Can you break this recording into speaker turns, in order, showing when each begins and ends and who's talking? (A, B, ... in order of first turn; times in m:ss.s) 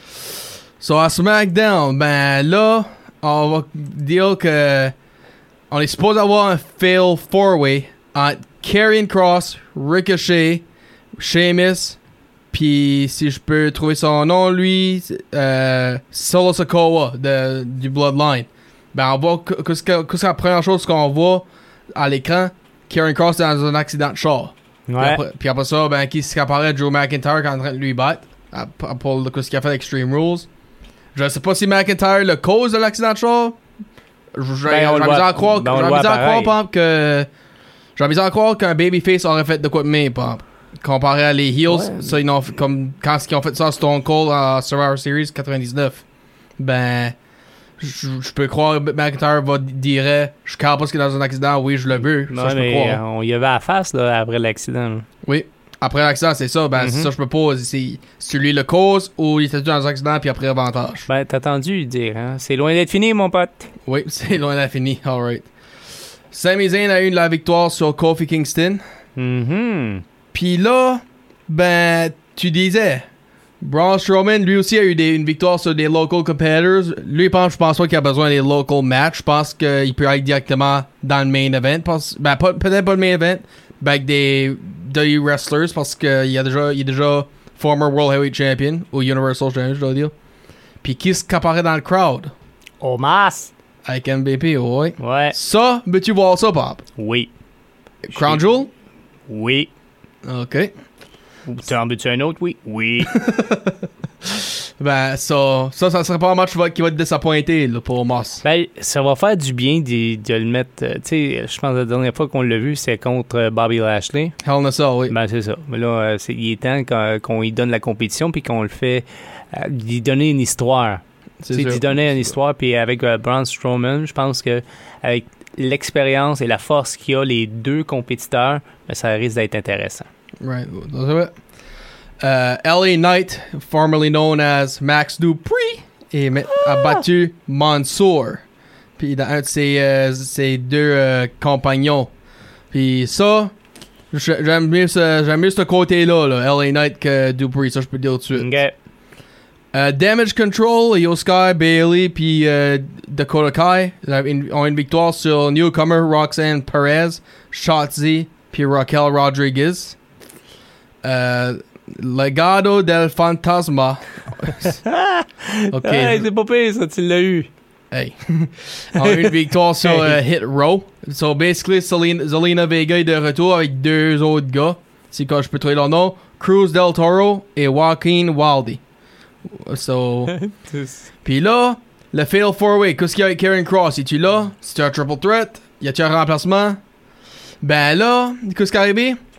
0:00.8-0:04.9 A
0:05.7-0:10.6 A
0:11.2-0:12.0 A
0:12.5-0:30.5 A
0:24.9-0:25.2 B
0:31.1-0:33.6 A
0:34.3-0:37.3 A
0:34.7-0:36.5 B
0:38.0-0:46.0 A
0:41.7-0:42.2 B
0:46.6-0:47.1 A
0:47.8-0:53.0 A
0:52.3-0:55.0 B
0:55.2-1:01.0 A
0:56.8-0:57.1 B
1:01.1-1:03.7 B
1:03.8-1:05.5 A
1:06.3-1:08.8 A
1:09.2-1:10.0 B
1:10.3-1:13.0 A
1:13.6-1:30.1 A
1:30.8-1:32.3 A
1:32.8-1:33.5 B
1:33.8-1:36.8 A
1:35.0-1:35.4 B
1:37.0-1:37.3 B
1:38.0-1:38.7 A
1:38.1-1:38.4 B
1:39.3-1:39.7 B
1:40.2-1:40.7 A
1:41.4-1:43.2 B
1:43.1-1:48.4 A
1:48.4-1:54.4 B
1:54.4-1:55.1 A
1:55.1-2:10.1 B
2:01.4-2:02.2 A
2:10.4-2:11.3 A
2:12.2-2:18.4 A
2:16.5-2:17.0 B
2:19.0-2:22.1 A
2:22.7-2:23.5 A
2:24.1-2:28.5 A
2:28.3-2:28.7 B
2:29.7-2:40.0 A
2:41.0-2:44.8 A
2:44.6-2:47.5 B
2:45.7-2:46.2 A
2:47.9-2:58.8 A
2:49.0-2:50.2 B
2:59.4-3:00.3 A
3:00.3-3:01.0 B
3:01.2-3:06.8 A
3:07.6-3:09.2 A